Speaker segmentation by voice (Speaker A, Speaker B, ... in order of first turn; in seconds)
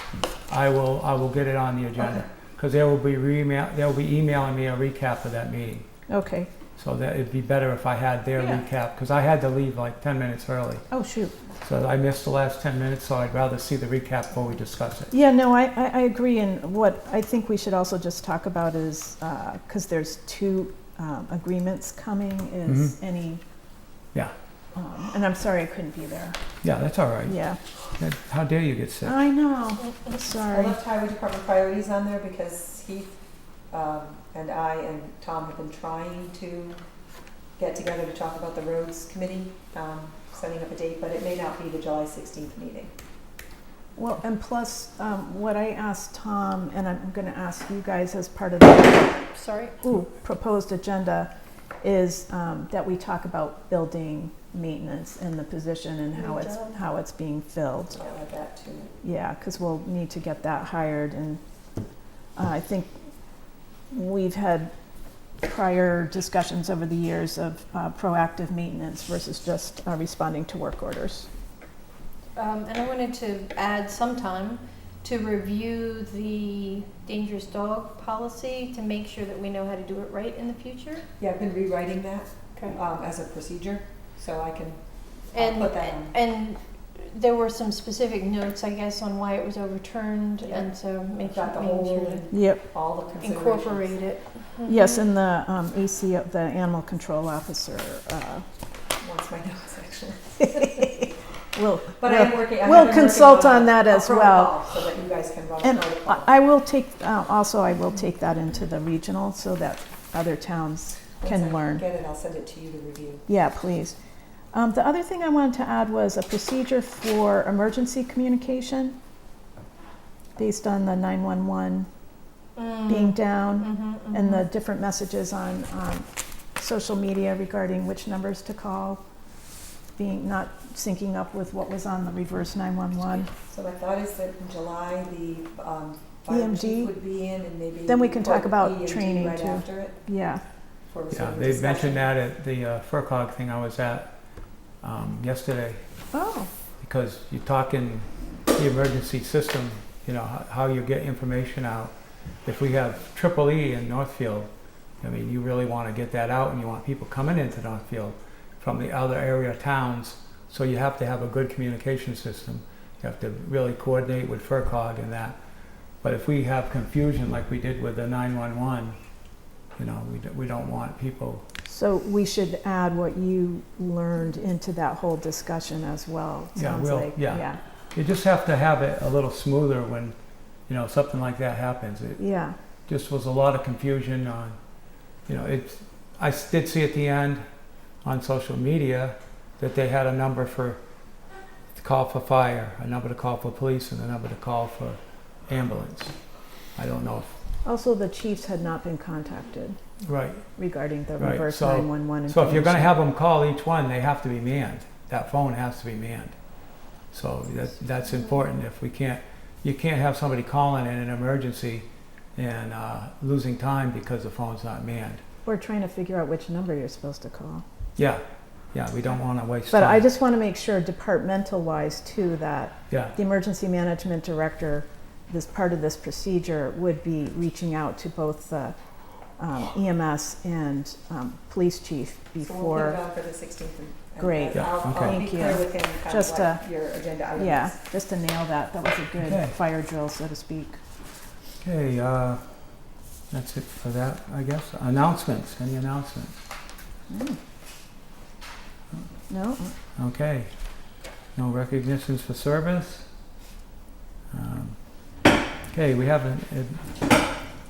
Speaker A: 0.5-5.9, 6.8-10.8, 11.6-15.1, 22.7-22.9, 26.6-27.4, 28.0-29.2, 141.1-144.1, 144.8-145.8, 146.8-151.9, 152.4-154.5, 155.0-165.4, 166.0-169.0, 169.8-171.4, 176.5-180.1, 180.7-182.2, 182.9-184.6, 185.3-187.4, 188.0-190.8, 191.8-196.1, 196.8-197.3, 200.0-200.4, 201.2-206.3, 207.1-215.2, 217.9-220.1, 222.9-223.2, 234.5-235.2, 239.2-239.6, 241.6-242.6, 243.3-246.4, 250.0-250.5, 251.3-253.1, 254.3-255.1, 255.7-256.9
Speaker B: 6.1-6.5, 10.9-11.3, 15.1-23.4, 24.7-26.4, 27.3-27.6, 29.0-30.8, 44.0-49.3, 49.8-51.3, 51.8-58.0, 59.0-61.4, 62.4-62.9, 63.9-64.7, 65.4-71.3, 92.3-92.7, 94.7-98.4, 100.4-104.6, 105.6-111.8, 113.3-114.0, 114.5-119.0, 120.4-121.9, 122.8-129.0, 130.0-133.3, 136.3-136.9, 137.8-140.4, 146.1-146.5, 171.7-177.6, 182.2-182.6, 197.6-199.8, 200.6-202.9, 215.4-217.6, 219.7-228.8, 229.4-233.0, 234.2-236.7, 237.3-240.8, 247.1-247.4, 249.3-249.7
Speaker C: 30.5-33.1, 33.7-36.8, 37.6-42.9, 57.9-58.9, 81.2-86.2, 90.4-94.0, 99.0-100.5, 102.0-106.3, 111.2-113.2, 133.5-140.0, 140.9-142.1, 232.4-237.8
Speaker D: 49.3-49.8, 56.1-56.7, 72.3-81.0, 85.3-92.3, 93.1-95.1, 122.6-124.4